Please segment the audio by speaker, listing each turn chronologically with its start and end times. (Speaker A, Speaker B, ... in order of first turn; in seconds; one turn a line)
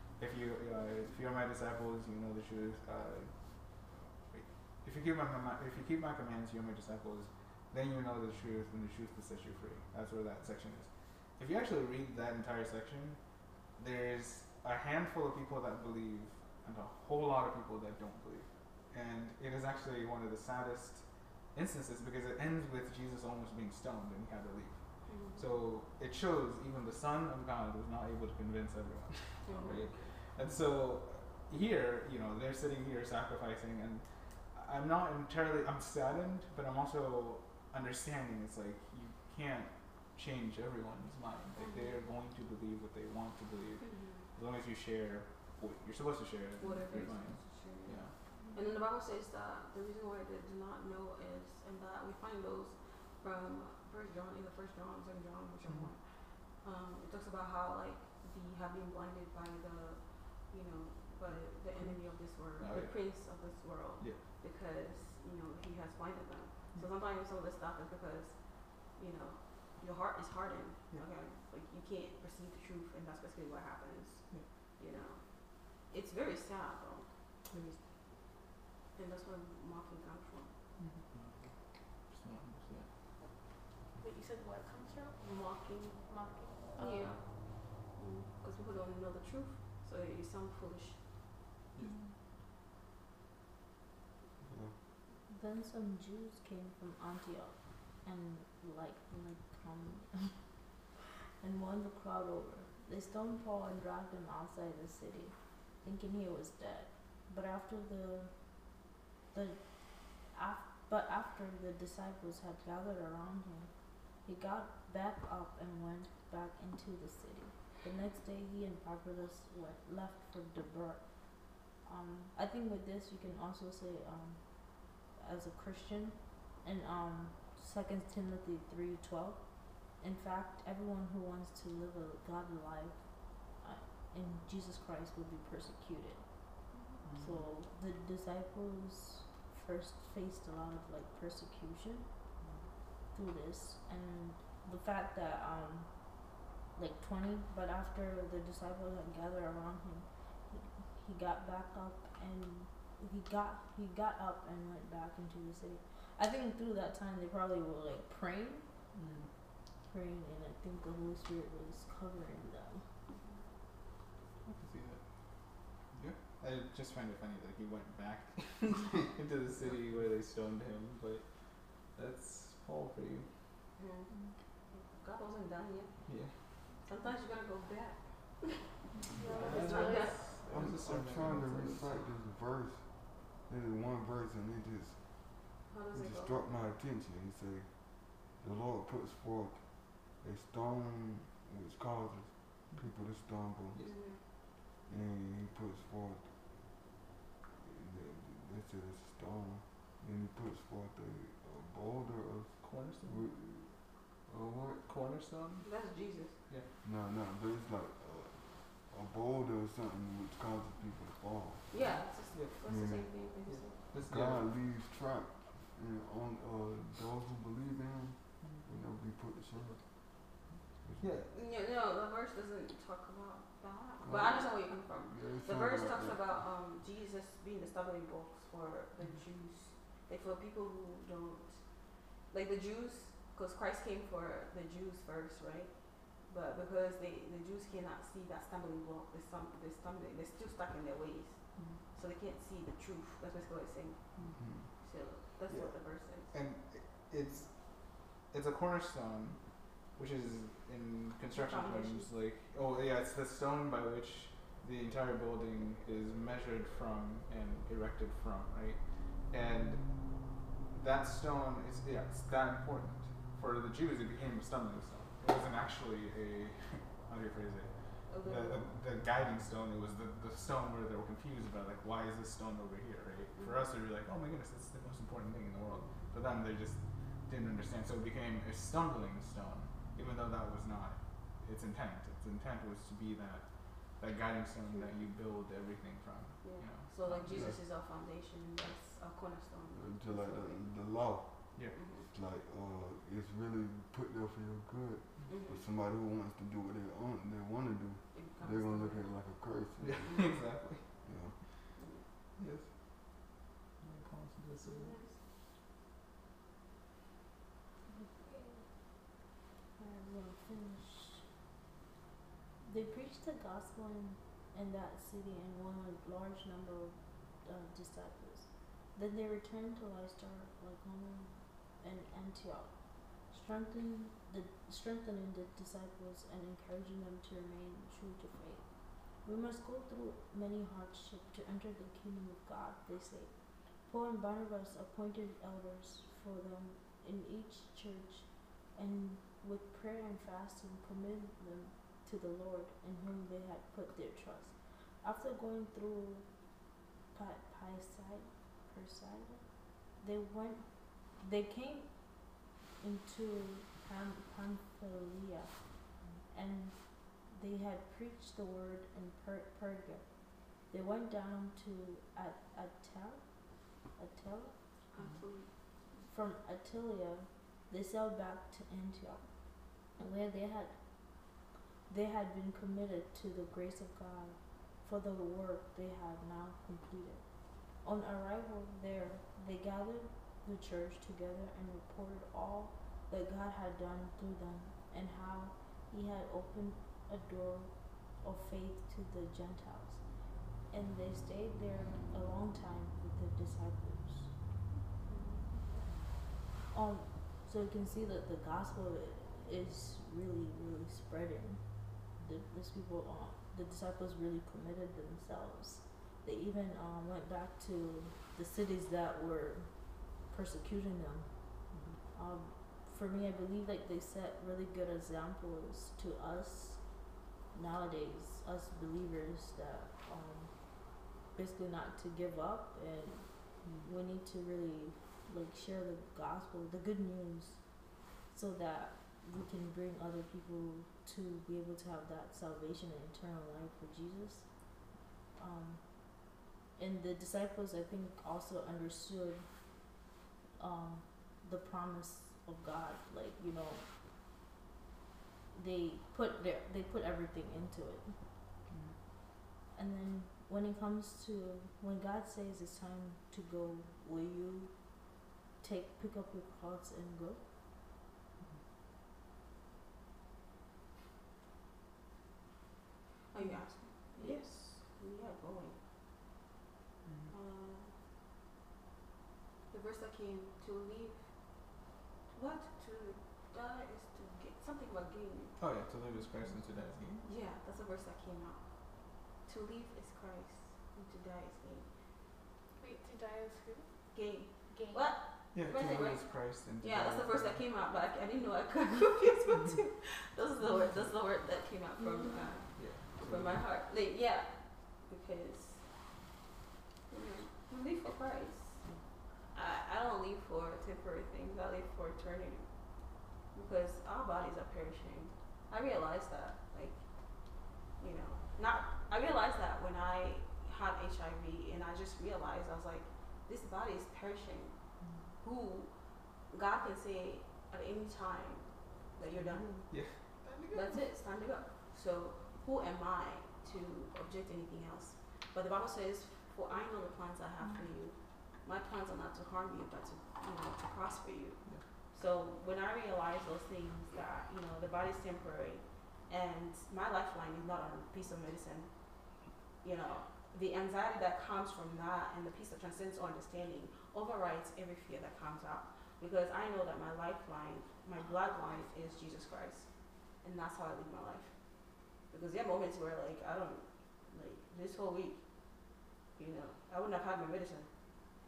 Speaker A: 0.2-3.3
Speaker A: 3.9-13.2
Speaker A: 13.8-24.8
Speaker B: 25.1-25.4
Speaker A: 25.4-48.1
Speaker B: 29.5-29.9
Speaker B: 41.6-42.0
Speaker B: 43.8-44.2
Speaker B: 46.6-48.0
Speaker B: 48.5-56.0
Speaker B: 56.6-74.3
Speaker A: 61.8-63.1
Speaker B: 74.8-77.1
Speaker A: 77.5-77.8
Speaker B: 79.0-80.5
Speaker A: 80.8-81.3
Speaker A: 82.1-82.9
Speaker C: 84.0-87.2
Speaker B: 85.2-86.0
Speaker B: 86.8-91.0
Speaker D: 94.4-94.8
Speaker E: 95.3-100.4
Speaker E: 101.4-108.3
Speaker E: 109.3-109.6
Speaker E: 110.3-113.7
Speaker E: 114.2-121.1
Speaker E: 121.8-124.4
Speaker E: 125.1-129.4
Speaker E: 130.0-133.0
Speaker E: 133.6-136.2
Speaker A: 137.0-137.5
Speaker E: 137.2-142.1
Speaker E: 143.1-145.9
Speaker E: 146.8-158.7
Speaker A: 158.9-159.3
Speaker E: 159.9-162.8
Speaker B: 163.1-163.4
Speaker A: 164.4-165.0
Speaker A: 165.9-171.2
Speaker A: 171.9-173.3
Speaker B: 173.8-174.1
Speaker B: 174.7-175.9
Speaker A: 176.1-176.3
Speaker B: 176.8-180.3
Speaker A: 179.1-182.1
Speaker C: 179.1-180.3
Speaker D: 180.5-193.8
Speaker B: 185.7-186.5
Speaker B: 193.8-194.2
Speaker D: 194.9-196.3
Speaker D: 197.6-204.9
Speaker A: 202.6-203.2
Speaker A: 204.8-205.7
Speaker B: 205.6-206.4
Speaker D: 206.8-211.7
Speaker B: 211.7-213.8
Speaker A: 211.8-212.6
Speaker D: 212.7-213.1
Speaker A: 213.5-214.5
Speaker D: 214.1-220.2
Speaker A: 221.0-221.3
Speaker B: 221.3-244.1
Speaker D: 224.0-226.2
Speaker A: 244.2-244.5
Speaker D: 244.3-244.7
Speaker B: 244.8-246.3
Speaker A: 246.3-249.4
Speaker A: 249.9-258.8
Speaker B: 251.3-252.1
Speaker A: 259.3-287.6
Speaker B: 268.1-268.7
Speaker B: 273.4-273.6
Speaker B: 275.7-276.1
Speaker B: 286.4-290.7
Speaker D: 287.3-287.6
Speaker D: 289.7-300.4
Speaker B: 291.7-292.1
Speaker B: 295.3-295.6
Speaker B: 298.1-299.1
Speaker A: 299.8-300.8
Speaker D: 301.0-301.4
Speaker B: 301.8-302.1
Speaker A: 302.4-302.7
Speaker A: 303.8-305.0
Speaker B: 304.6-305.2
Speaker E: 307.9-308.6
Speaker E: 309.8-311.2
Speaker E: 312.6-328.7
Speaker E: 329.2-333.3
Speaker E: 333.8-346.3
Speaker E: 347.1-349.4
Speaker E: 350.0-352.2
Speaker E: 352.8-355.7
Speaker E: 356.3-360.1
Speaker E: 360.6-363.2
Speaker E: 364.0-364.6
Speaker B: 364.9-365.5
Speaker E: 366.0-369.3
Speaker E: 370.0-370.8
Speaker E: 371.9-377.2
Speaker E: 377.8-390.0
Speaker E: 390.7-394.3
Speaker B: 395.1-395.4
Speaker E: 396.7-409.7
Speaker E: 410.2-411.4
Speaker A: 411.7-412.0
Speaker E: 412.1-416.8
Speaker E: 417.5-420.5
Speaker E: 421.3-427.6
Speaker E: 428.3-434.5
Speaker E: 435.4-439.5
Speaker E: 440.6-443.8
Speaker E: 445.5-448.1
Speaker E: 449.7-455.0
Speaker E: 455.6-457.4
Speaker B: 463.3-465.8
Speaker A: 467.1-467.3
Speaker B: 467.3-467.9
Speaker B: 469.7-471.8
Speaker B: 472.3-475.6
Speaker A: 475.6-477.2
Speaker E: 476.4-476.9
Speaker B: 477.2-481.9
Speaker C: 482.8-483.9
Speaker B: 484.1-495.9
Speaker C: 484.7-485.1
Speaker A: 485.5-487.6
Speaker E: 492.1-492.4
Speaker A: 492.7-493.6
Speaker B: 497.1-498.8
Speaker B: 499.5-502.7
Speaker B: 503.5-507.0
Speaker B: 508.0-514.7
Speaker B: 515.4-515.9
Speaker B: 516.5-519.7
Speaker A: 519.4-521.0
Speaker B: 520.7-539.0
Speaker B: 539.8-549.9
Speaker B: 550.4-551.5
Speaker B: 552.3-555.4
Speaker B: 556.4-557.9